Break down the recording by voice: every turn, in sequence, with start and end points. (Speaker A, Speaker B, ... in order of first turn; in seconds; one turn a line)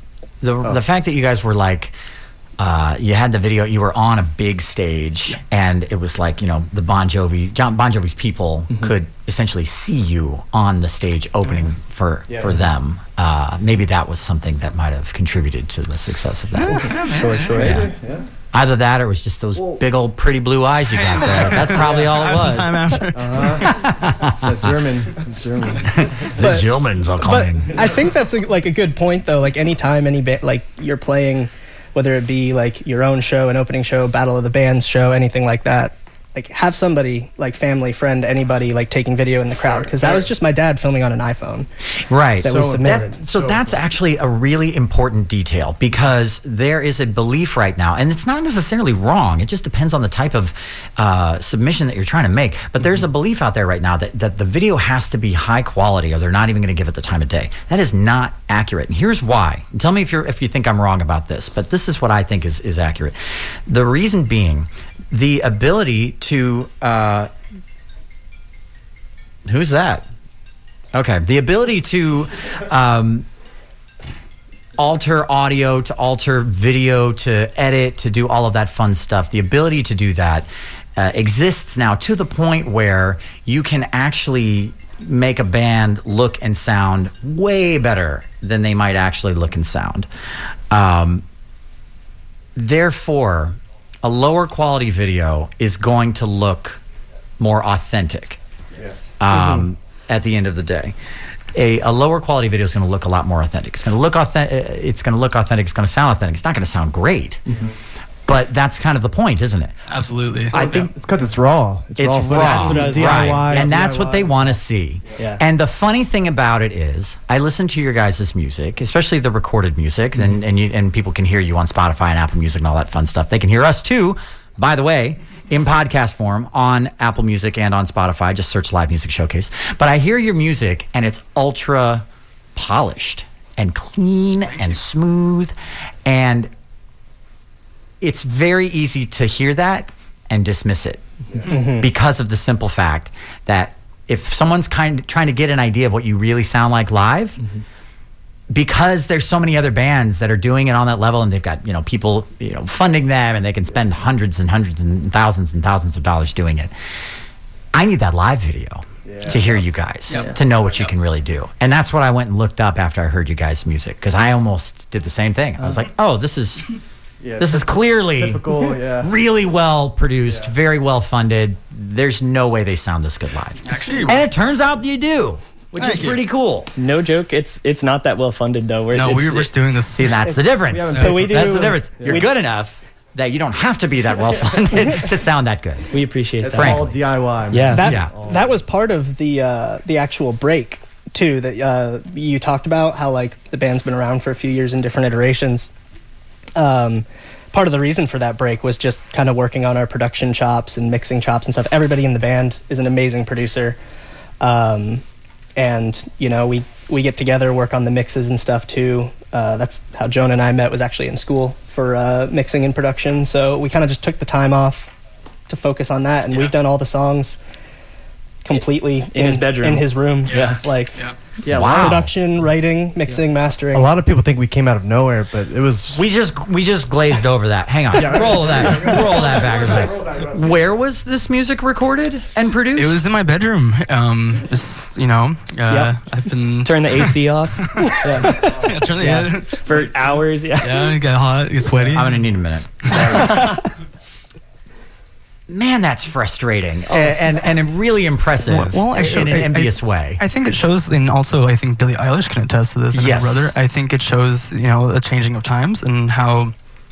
Speaker A: 0.4-1.9
Speaker A: 2.6-16.9
Speaker B: 8.7-8.9
Speaker C: 11.4-11.7
Speaker D: 12.3-12.6
Speaker B: 16.6-17.9
Speaker C: 16.6-17.8
Speaker D: 17.6-18.2
Speaker A: 18.5-24.7
Speaker D: 19.6-19.8
Speaker C: 20.9-23.7
Speaker D: 21.5-22.3
Speaker D: 23.1-26.6
Speaker A: 26.0-27.8
Speaker E: 26.4-26.7
Speaker E: 27.2-41.7
Speaker D: 27.3-27.8
Speaker D: 39.6-40.3
Speaker A: 42.1-63.1
Speaker E: 42.4-43.2
Speaker D: 42.4-43.8
Speaker A: 63.7-67.3
Speaker A: 69.5-70.1
Speaker A: 70.9-73.2
Speaker A: 74.8-90.1
Speaker A: 90.7-91.2
Speaker A: 92.6-96.8
Speaker A: 97.4-98.4
Speaker D: 98.7-99.6
Speaker A: 99.2-100.9
Speaker A: 101.5-107.6
Speaker A: 108.2-109.7
Speaker C: 109.9-110.9
Speaker D: 110.5-114.6
Speaker A: 112.0-136.5
Speaker B: 112.2-113.7
Speaker C: 134.4-134.8
Speaker A: 138.0-141.0
Speaker E: 141.5-141.9
Speaker A: 141.8-147.4
Speaker A: 148.5-156.7
Speaker A: 157.7-166.7
Speaker D: 159.0-159.6
Speaker C: 160.1-160.9
Speaker D: 160.5-160.8
Speaker D: 167.2-169.1
Speaker A: 167.4-176.7
Speaker D: 170.2-170.5
Speaker C: 173.6-174.3
Speaker C: 175.8-176.2
Speaker B: 176.8-179.5
Speaker C: 178.9-180.2
Speaker A: 179.9-186.0
Speaker E: 180.2-182.3
Speaker D: 180.7-182.3
Speaker C: 180.9-181.2
Speaker B: 185.9-186.8
Speaker D: 186.4-188.6
Speaker A: 186.5-186.9
Speaker B: 187.5-187.9
Speaker E: 187.7-195.7
Speaker A: 187.8-188.1
Speaker E: 196.6-203.8
Speaker E: 204.4-205.0
Speaker E: 205.6-214.9
Speaker E: 215.5-217.4
Speaker C: 216.3-216.5
Speaker E: 218.4-221.0
Speaker B: 219.1-220.6
Speaker C: 220.3-221.2
Speaker A: 221.5-222.1
Speaker D: 221.5-222.1
Speaker E: 221.6-223.9
Speaker D: 223.7-226.0
Speaker A: 225.9-233.0
Speaker D: 227.9-230.6
Speaker C: 232.8-242.3
Speaker B: 235.7-236.0
Speaker B: 236.6-241.0
Speaker D: 238.4-238.8
Speaker A: 241.9-243.5
Speaker C: 242.8-243.1
Speaker D: 242.9-243.3
Speaker B: 243.2-243.6
Speaker A: 245.5-250.2
Speaker B: 246.9-247.4
Speaker C: 248.5-256.5
Speaker A: 252.9-253.5